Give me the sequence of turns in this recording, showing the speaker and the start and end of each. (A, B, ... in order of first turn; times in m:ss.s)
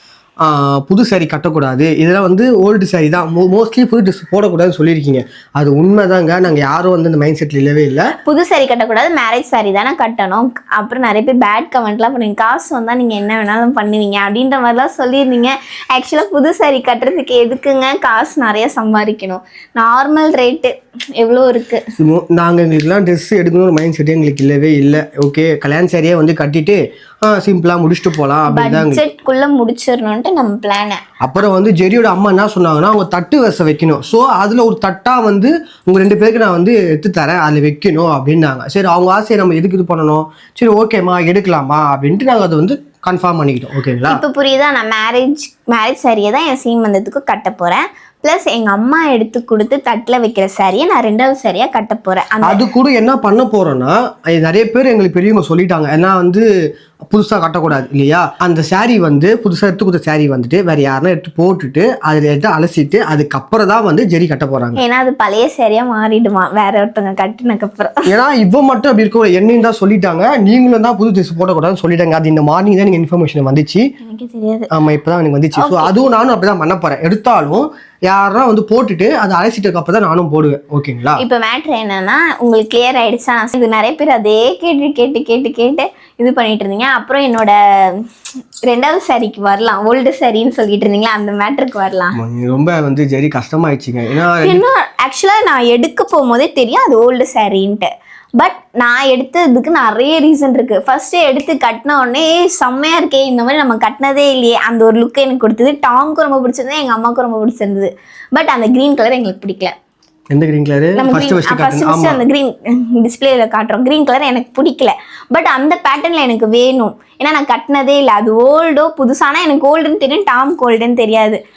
0:00.4-0:08.1 A
0:08.2-0:21.8 B
0:22.0-0:29.0 A
0:28.5-0:31.0 B
0:31.2-0:44.2 A
0:44.1-0:52.6 B
0:52.4-0:56.5 A
0:57.1-1:04.8 A
1:04.8-1:08.0 B
1:08.1-1:13.8 A
1:14.0-1:14.7 B
1:14.7-1:21.2 A
1:15.6-1:15.9 B
1:21.2-1:28.0 B
1:28.7-1:32.2 B
1:32.2-1:34.6 A
1:34.2-1:49.7 B
1:50.3-1:52.2 A
1:51.0-2:01.4 B